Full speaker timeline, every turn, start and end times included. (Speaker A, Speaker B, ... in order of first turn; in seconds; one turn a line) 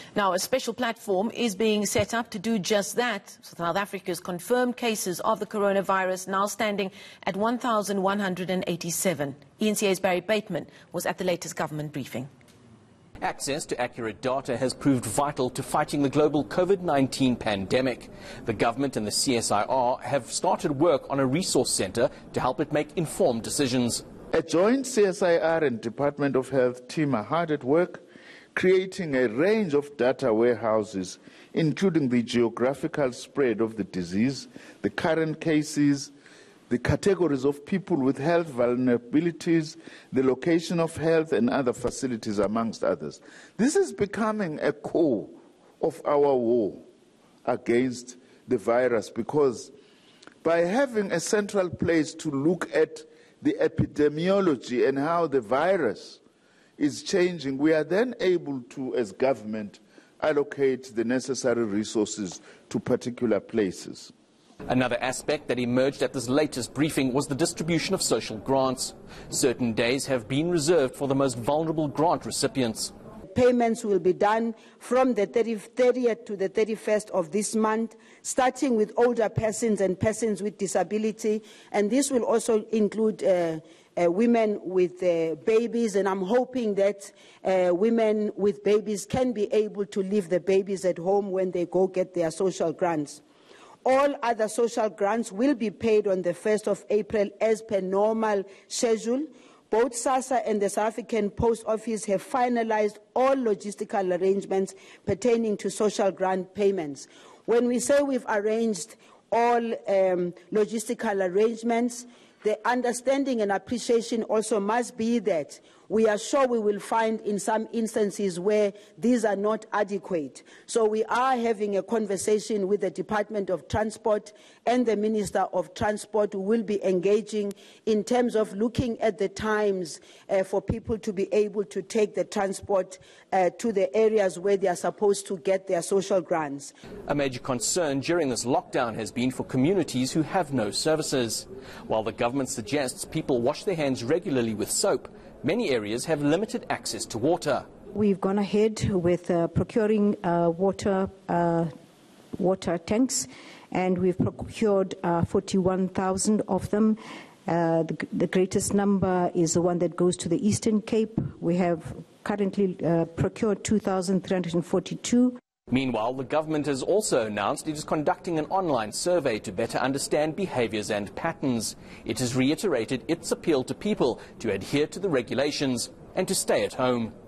Speaker A: 0.1-12.3
Speaker B: 13.2-24.0
Speaker C: 24.3-36.1
Speaker C: 36.7-46.8
Speaker C: 47.4-49.7
Speaker C: 50.4-56.2
Speaker C: 56.8-64.1
Speaker B: 64.7-72.9
Speaker D: 73.3-93.2
Speaker D: 93.8-136.7
Speaker B: 137.1-147.7
Speaker E: 147.9-151.7
Speaker E: 152.3-165.4
Speaker B: 165.7-177.1